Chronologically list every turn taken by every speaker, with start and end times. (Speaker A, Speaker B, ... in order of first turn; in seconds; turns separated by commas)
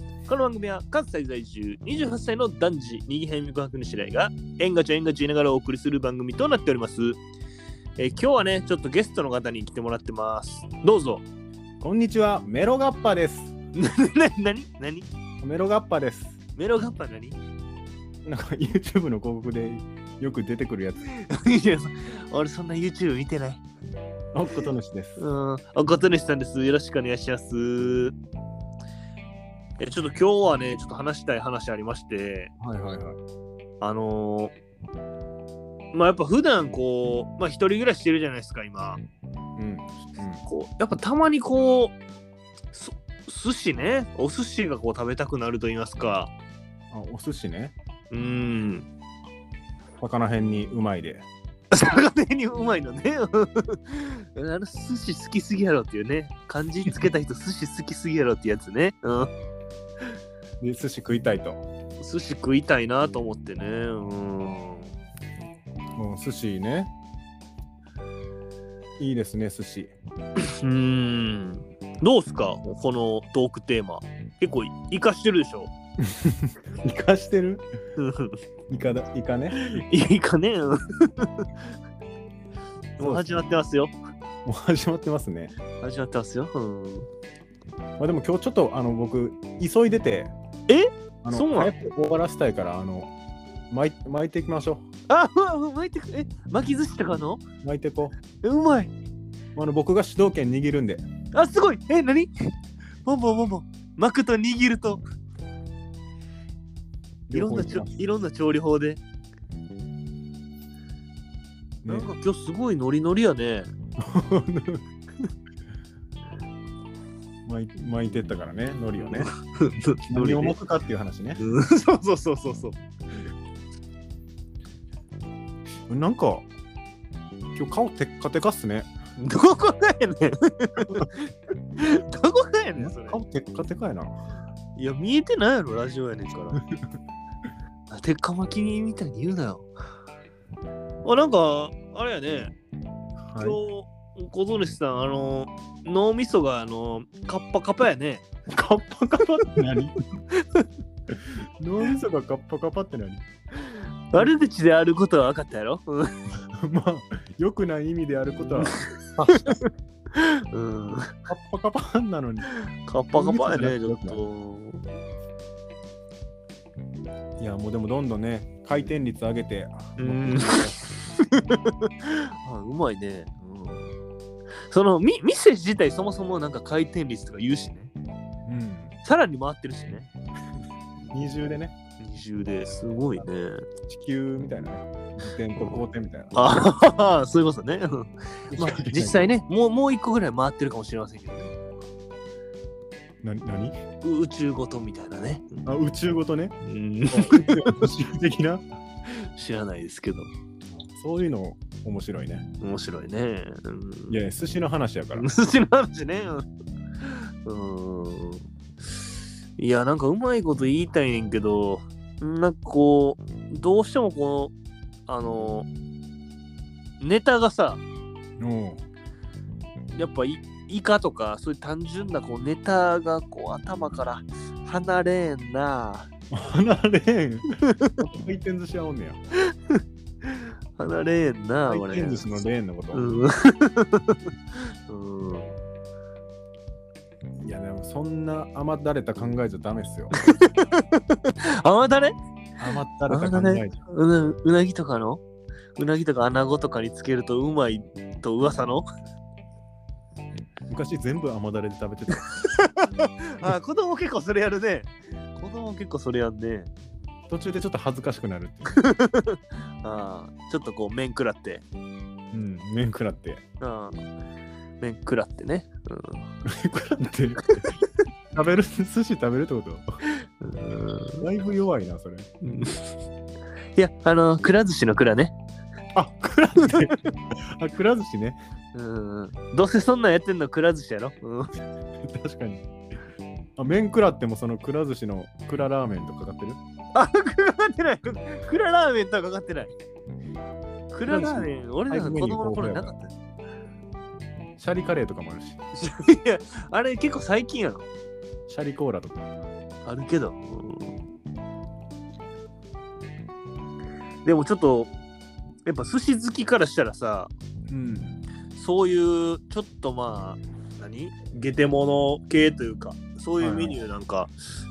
Speaker A: 0.3-7.2, Speaker A: 8.0-11.2, Speaker B: 11.8-13.5, Speaker A: 13.8-15.1, Speaker B: 15.4-16.4, Speaker A: 16.6-17.4, Speaker B: 18.2-21.1, Speaker A: 21.1-23.6, Speaker B: 24.3-25.2, Speaker A: 25.2-28.1, Speaker A: 29.8-32.5, Speaker B: 32.6-33.2, Speaker A: 33.8-34.5, Speaker A: 35.9-39.0, Speaker B: 39.6-40.4, Speaker A: 40.5-42.0, Speaker A: 42.7-46.3, Speaker B: 46.9-47.8, Speaker A: 48.1-48.9, Speaker B: 50.0-51.3, Speaker A: 51.7-59.3, Speaker B: 60.6-61.6, Speaker A: 62.0-64.9, Speaker B: 66.0-66.9, Speaker B: 69.0-69.9, Speaker A: 70.5-75.7, Speaker B: 76.0-77.7, Speaker A: 78.0-78.4, Speaker B: 78.7-79.6, Speaker A: 79.5-81.5, Speaker B: 83.0-83.4, Speaker A: 83.0-83.9, Speaker B: 84.5-85.5, Speaker A: 85.8-87.1, Speaker B: 88.0-90.3, Speaker A: 90.7-91.7, Speaker B: 91.2-93.1, Speaker B: 93.7-94.9, Speaker A: 95.1-97.4, Speaker B: 97.6-98.2, Speaker A: 98.4-98.9, Speaker B: 99.5-101.0, Speaker A: 101.3-102.3, Speaker A: 103.0-105.0, Speaker B: 107.3-108.0, Speaker A: 107.3-109.0, Speaker B: 111.8-112.1, Speaker A: 111.9-113.7, Speaker B: 114.0-114.8, Speaker B: 117.5-119.3, Speaker A: 119.0-120.6, Speaker B: 120.1-121.4, Speaker A: 121.4-122.8, Speaker B: 125.9-126.5, Speaker B: 127.5-128.9, Speaker A: 129.2-133.2, Speaker B: 132.8-134.2, Speaker A: 134.8-136.6, Speaker A: 137.9-139.7, Speaker A: 141.0-142.5, Speaker B: 143.3-143.6, Speaker A: 143.4-148.2, Speaker B: 148.5-149.9, Speaker A: 150.3-150.7, Speaker B: 151.6-153.2, Speaker A: 154.1-156.1, Speaker B: 156.6-159.6, Speaker A: 158.5-159.6, Speaker A: 160.1-161.2, Speaker B: 161.3-162.5, Speaker A: 162.5-164.8, Speaker B: 163.1-164.2, Speaker B: 167.4-170.8, Speaker A: 170.0-173.9, Speaker A: 174.7-177.9, Speaker B: 178.5-178.9, Speaker A: 179.0-180.1, Speaker B: 181.1-181.8, Speaker A: 182.0-183.7, Speaker B: 183.9-186.6, Speaker A: 186.3-191.9, Speaker B: 188.5-189.3, Speaker B: 193.2-193.8, Speaker A: 194.0-195.6, Speaker B: 195.7-196.6, Speaker A: 196.6-197.8, Speaker B: 197.1-198.7, Speaker A: 199.1-200.3, Speaker B: 200.7-202.5, Speaker A: 202.6-204.2, Speaker B: 204.1-205.3, Speaker A: 205.1-206.5, Speaker A: 207.0-208.4, Speaker A: 209.6-214.5, Speaker A: 215.1-215.7, Speaker A: 217.0-217.8, Speaker B: 218.4-218.8, Speaker A: 220.0-226.1, Speaker B: 226.3-227.4, Speaker A: 227.7-228.0, Speaker B: 228.0-229.2, Speaker A: 229.7-232.3, Speaker B: 231.7-233.1, Speaker A: 232.9-234.2, Speaker A: 234.9-235.6, Speaker B: 237.4-240.1, Speaker A: 240.3-242.1, Speaker B: 242.6-243.8, Speaker A: 243.1-245.2, Speaker A: 245.8-248.9, Speaker B: 250.7-252.2, Speaker A: 252.4-256.7, Speaker B: 257.3-258.8, Speaker A: 258.7-261.6, Speaker B: 262.3-263.4, Speaker A: 263.6-264.1, Speaker A: 264.8-266.2, Speaker B: 266.4-267.7, Speaker A: 267.5-267.8, Speaker B: 268.3-269.8, Speaker A: 270.4-271.2, Speaker B: 271.2-272.3, Speaker A: 272.4-272.8, Speaker A: 273.8-275.4, Speaker B: 275.9-277.0, Speaker A: 276.6-277.0, Speaker B: 277.6-278.4, Speaker A: 278.7-281.5, Speaker B: 282.0-282.7, Speaker B: 283.6-286.6, Speaker A: 286.9-289.7, Speaker A: 290.9-293.1, Speaker B: 291.1-293.0, Speaker B: 294.6-295.6, Speaker A: 295.8-297.9, Speaker B: 298.5-299.4, Speaker A: 299.9-301.0, Speaker A: 304.2-304.9, Speaker A: 305.7-307.3, Speaker B: 307.7-308.2, Speaker A: 308.5-314.3, Speaker B: 313.4-313.8